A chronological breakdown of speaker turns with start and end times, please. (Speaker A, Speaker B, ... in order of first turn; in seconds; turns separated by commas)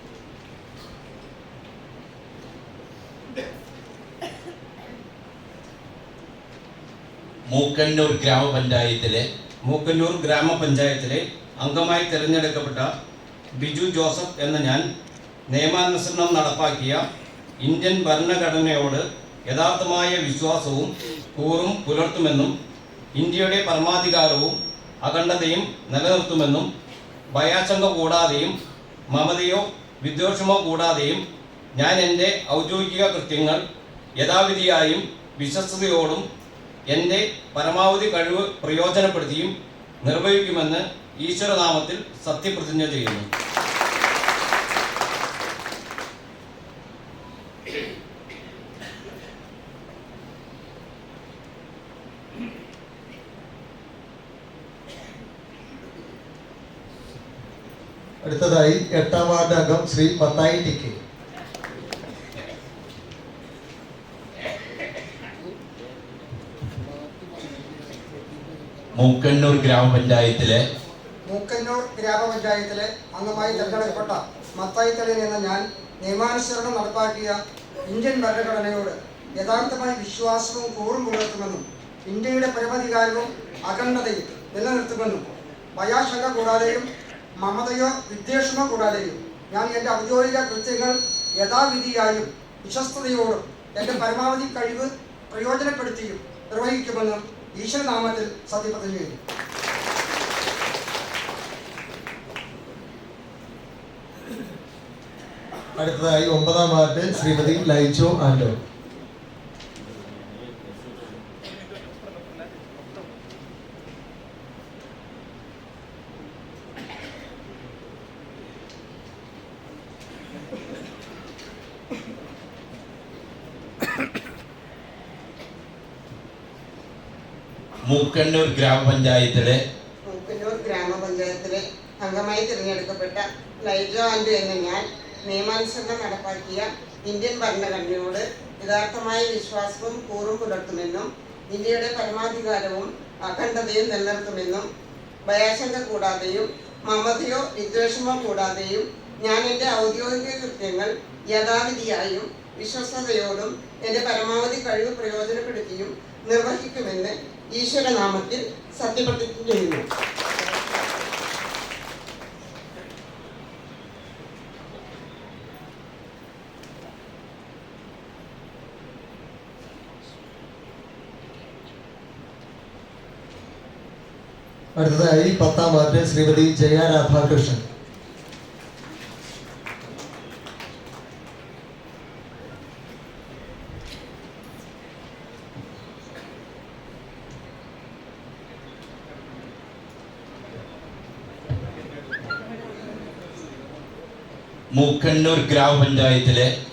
Speaker A: 7.5-9.2, Speaker B: 9.7-12.9, Speaker B: 13.6-14.8, Speaker B: 15.5-17.0, Speaker B: 17.6-22.5, Speaker B: 23.1-26.7, Speaker B: 27.3-28.5, Speaker B: 29.1-31.2, Speaker B: 31.8-33.6, Speaker B: 34.2-36.2, Speaker B: 36.9-43.3, Speaker C: 58.2-61.0, Speaker A: 68.9-70.6, Speaker D: 71.3-86.9, Speaker D: 87.4-99.2, Speaker C: 105.8-108.6, Speaker A: 127.8-129.6, Speaker E: 130.1-144.7, Speaker E: 145.2-159.8, Speaker C: 174.8-177.6, Speaker A: 194.7-196.5